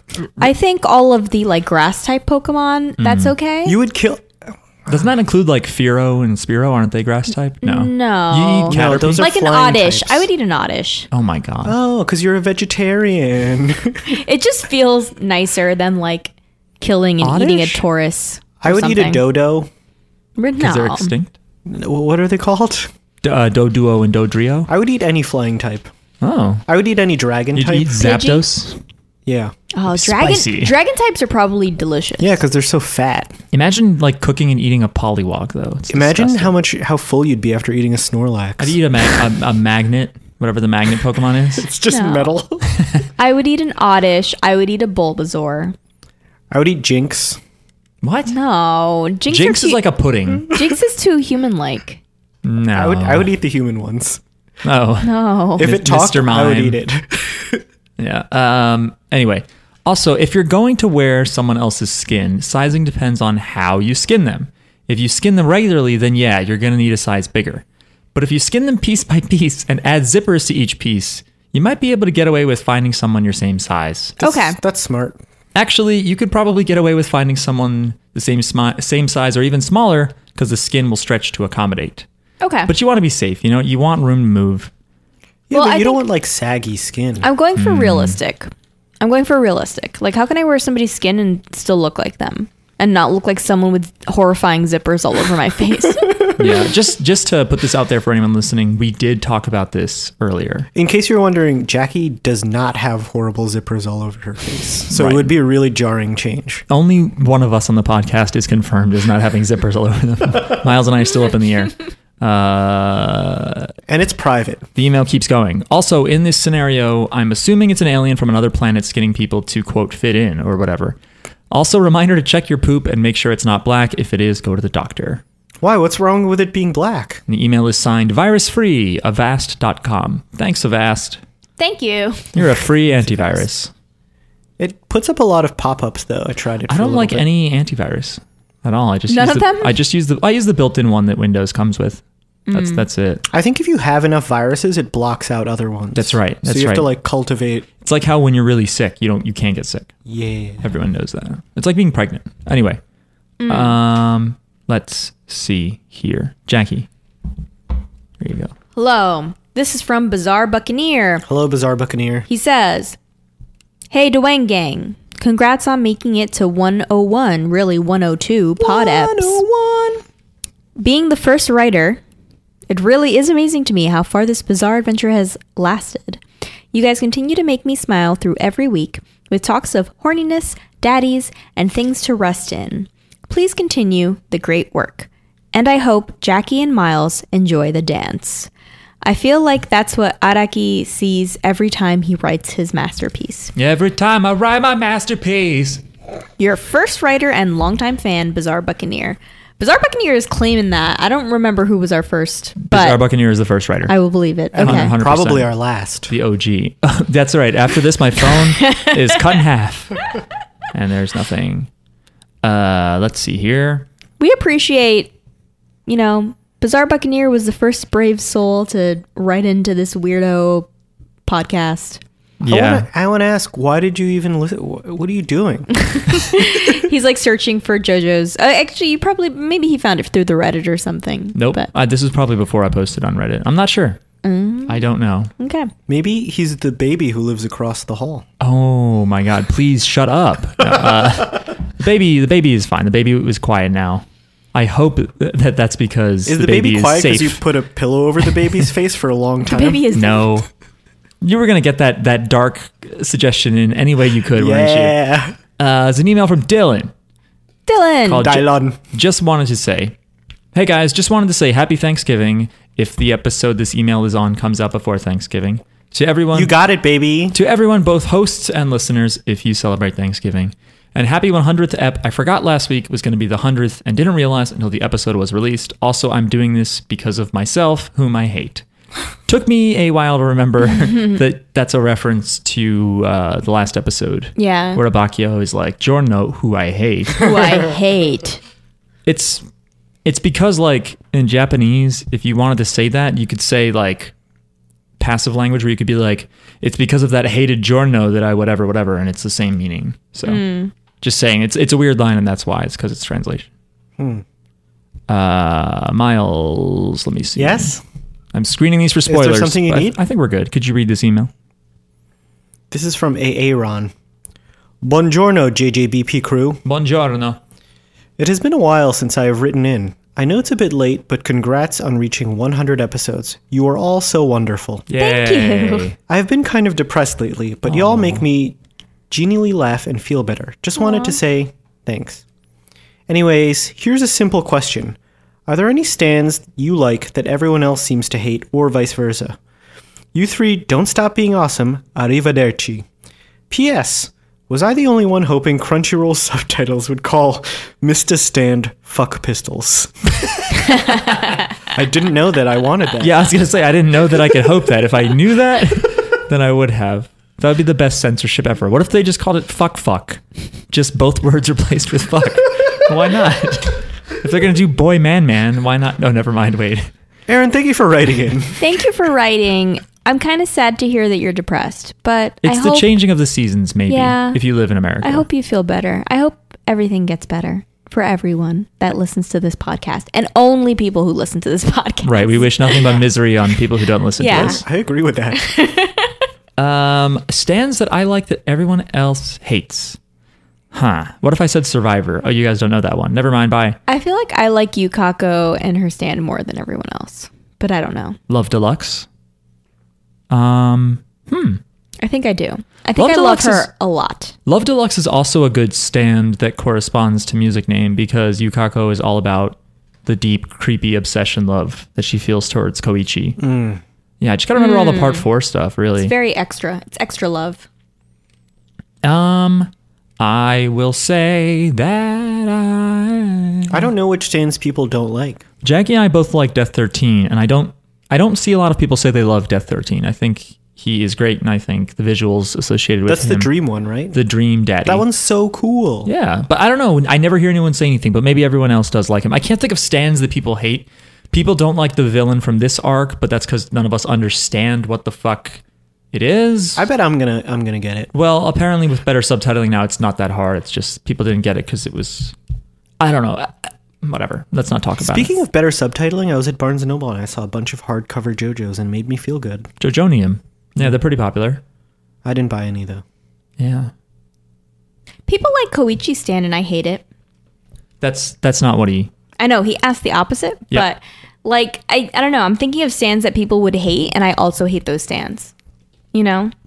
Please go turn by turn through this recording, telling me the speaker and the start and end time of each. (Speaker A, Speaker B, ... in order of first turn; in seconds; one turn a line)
Speaker A: 0.4-3.8
Speaker B: 3.0-3.3
Speaker C: 3.6-4.9
Speaker B: 4.9-9.3
Speaker A: 7.6-11.1
Speaker C: 8.7-10.2
Speaker B: 11.1-11.8
Speaker C: 11.6-14.2
Speaker A: 14.1-19.2
Speaker B: 17.2-17.8
Speaker C: 18.6-19.7
Speaker A: 20.4-21.1
Speaker B: 20.6-21.3
Speaker C: 21.6-22.9
Speaker B: 23.2-24.7
Speaker C: 24.7-25.9
Speaker B: 26.2-26.6
Speaker C: 26.7-28.0
Speaker B: 27.5-28.8
Speaker A: 28.0-28.4
Speaker C: 29.2-29.5
Speaker A: 29.7-32.4
Speaker B: 29.9-30.7
Speaker C: 32.2-33.3
Speaker B: 33.5-36.5
Speaker C: 35.9-38.8
Speaker B: 38.6-41.7
Speaker C: 41.6-42.7
Speaker A: 41.9-42.3
Speaker A: 43.2-45.7
Speaker C: 46.5-47.4
Speaker B: 48.0-48.3
Speaker A: 48.3-49.8
Speaker B: 49.3-50.5
Speaker A: 50.5-52.0
Speaker B: 52.4-53.3
Speaker C: 52.7-54.2
Speaker B: 54.6-56.8
Speaker A: 55.0-55.7
Speaker C: 55.6-57.6
Speaker B: 58.0-74.2
Speaker C: 74.2-75.2
Speaker A: 74.2-74.6
Speaker B: 75.5-82.0
Speaker A: 82.4-82.7
Speaker B: 82.7-84.7
Speaker C: 85.5-87.3
Speaker A: 85.5-86.0
Speaker A: 87.2-96.2
Speaker B: 87.6-88.2
Speaker C: 96.1-96.4
Speaker B: 96.4-100.7
Speaker C: 100.7-106.6
Speaker B: 104.9-105.3
Speaker B: 106.7-113.7
Speaker C: 113.9-114.7
Speaker B: 114.8-121.0
Speaker B: 121.5-125.2
Speaker C: 125.6-127.2
Speaker B: 127.3-131.2
Speaker A: 131.6-132.4
Speaker B: 132.3-133.7
Speaker C: 134.6-137.2
Speaker B: 136.7-143.2
Speaker A: 139.1-139.8
Speaker A: 142.5-142.8
Speaker C: 143.3-147.7
Speaker B: 145.9-146.9
Speaker B: 147.8-149.9
Speaker C: 150.1-150.6
Speaker B: 150.6-152.8
Speaker A: 153.4-153.8
Speaker B: 153.5-156.9
Speaker B: 158.2-158.5
Speaker A: 158.8-161.2
Speaker C: 161.2-162.3
Speaker A: 162.3-163.0
Speaker A: 163.9-169.4
Speaker C: 168.6-170.0
Speaker A: 170.8-172.0
Speaker A: 172.7-188.5
Speaker A: 189.0-193.5
Speaker B: 193.5-195.8
Speaker A: 196.4-203.0
Speaker B: 202.6-203.9
Speaker A: 203.9-204.9
Speaker C: 204.5-206.1
Speaker B: 204.6-205.5
Speaker B: 206.1-210.1
Speaker A: 208.5-209.4
Speaker B: 210.7-211.7
Speaker B: 212.4-213.9
Speaker A: 214.2-215.1
Speaker A: 215.8-220.7
Speaker A: 221.2-222.0
Speaker B: 222.4-222.9
Speaker C: 222.5-225.7
Speaker A: 225.7-231.7
Speaker B: 231.3-234.0
Speaker A: 234.2-234.8
Speaker B: 234.7-235.3
Speaker A: 235.4-235.7
Speaker C: 235.9-238.2
Speaker B: 238.4-247.4
Speaker C: 246.2-249.9
Speaker A: 249.4-250.3
Speaker B: 249.9-250.5
Speaker B: 251.2-255.0
Speaker C: 254.3-255.4
Speaker B: 255.6-256.9
Speaker A: 257.6-258.3
Speaker B: 258.1-259.9
Speaker C: 258.2-258.8
Speaker B: 260.5-266.5
Speaker C: 266.3-267.4
Speaker B: 267.3-278.6
Speaker B: 279.2-287.5
Speaker A: 284.4-284.8
Speaker A: 287.2-288.4
Speaker B: 289.1-289.4
Speaker B: 290.0-294.1
Speaker B: 295.0-300.4
Speaker A: 300.2-300.7
Speaker B: 301.0-303.5
Speaker C: 304.0-304.2
Speaker B: 305.1-307.7
Speaker C: 307.4-307.8
Speaker B: 308.3-311.3
Speaker C: 309.1-310.0
Speaker C: 312.7-313.9
Speaker C: 314.8-316.6
Speaker B: 316.6-317.4
Speaker C: 318.2-324.8
Speaker B: 324.9-326.0
Speaker A: 325.0-325.9
Speaker C: 326.1-328.6
Speaker B: 327.7-328.2
Speaker C: 329.1-332.2
Speaker A: 330.8-331.2
Speaker C: 333.1-339.4
Speaker C: 340.1-342.9
Speaker C: 343.5-350.8
Speaker C: 351.6-353.5
Speaker B: 353.0-366.9
Speaker C: 367.3-368.6
Speaker A: 368.6-372.9
Speaker B: 372.4-375.2
Speaker A: 373.9-374.4
Speaker A: 375.0-383.0
Speaker B: 382.0-384.6
Speaker A: 384.2-384.6
Speaker C: 384.3-385.4
Speaker A: 385.3-386.1
Speaker B: 386.6-390.0
Speaker B: 390.7-393.8
Speaker A: 393.9-398.2
Speaker B: 398.3-399.1
Speaker B: 400.3-401.6
Speaker A: 402.0-404.3
Speaker B: 402.9-403.7
Speaker B: 404.4-413.4
Speaker C: 413.4-413.8
Speaker B: 414.2-416.1
Speaker A: 414.6-415.2
Speaker A: 416.0-417.6
Speaker B: 419.0-423.8
Speaker C: 423.7-425.4
Speaker B: 425.6-433.5
Speaker C: 433.1-434.2
Speaker B: 434.1-435.0
Speaker C: 434.8-436.1
Speaker B: 436.0-445.6
Speaker B: 446.1-446.8
Speaker C: 446.8-448.1
Speaker B: 448.1-452.3
Speaker B: 453.0-455.3
Speaker C: 455.0-459.7
Speaker B: 459.8-461.6
Speaker C: 462.2-463.0
Speaker B: 463.6-463.9
Speaker A: 465.3-467.0
Speaker B: 468.0-469.1
Speaker A: 469.4-475.5
Speaker A: 476.1-476.5